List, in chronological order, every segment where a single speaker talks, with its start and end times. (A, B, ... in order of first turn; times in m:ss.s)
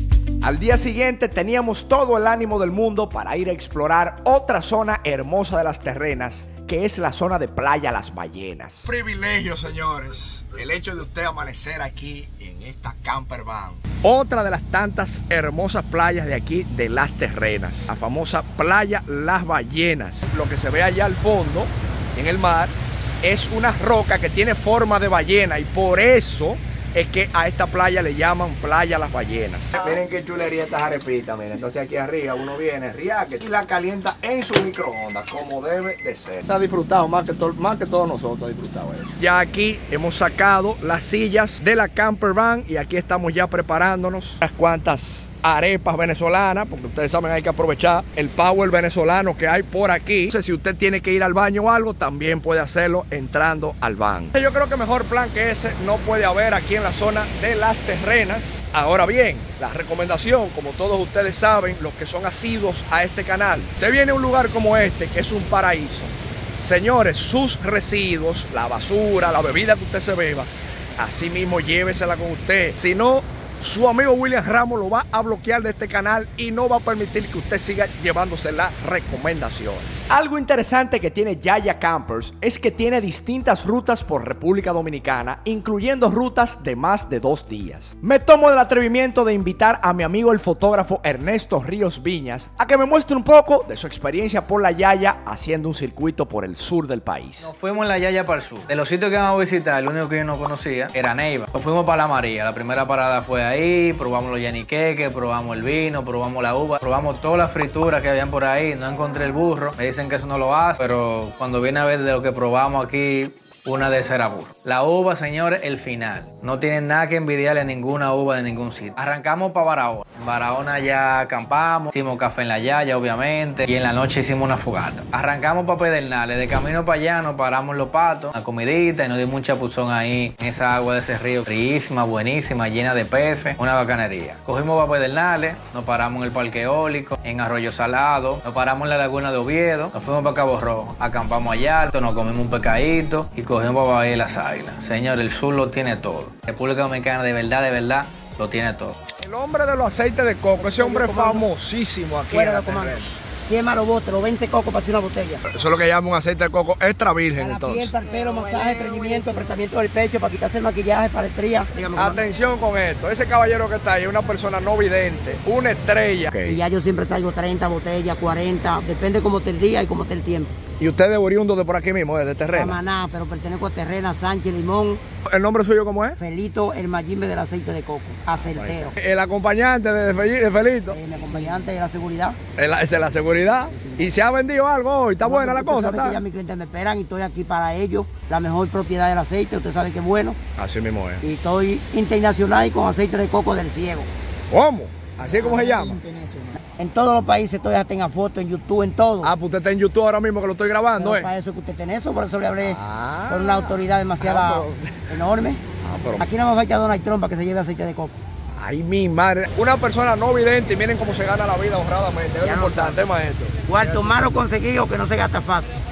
0:00.4-1:37.5 A
1:37.4-2:28.9 B
2:29.2-2:33.2 A
2:30.6-2:31.5 C
2:32.3-2:35.4 C
2:35.5-2:39.6 A
2:37.4-2:42.2 C
2:42.0-2:46.6 A
2:46.5-2:50.5 C
2:50.8-2:52.8 A
2:52.5-2:55.0 C
2:55.2-2:56.2 A
2:56.2-2:59.0 C
2:58.5-3:01.0 A
3:00.9-3:02.4 C
3:02.6-3:06.2 A
3:03.7-3:04.1 C
3:05.2-3:10.4 C
3:10.6-3:11.2 A
3:11.2-3:14.1 C
3:14.5-3:16.0 A
3:15.3-3:19.3 C
3:19.2-3:21.3 A
3:21.0-3:25.6 C
3:22.6-3:25.1 A
3:25.8-3:26.2 A
3:26.2-3:28.2 C
3:28.6-3:34.3 A
3:32.4-3:33.0 C
3:33.7-3:35.7 C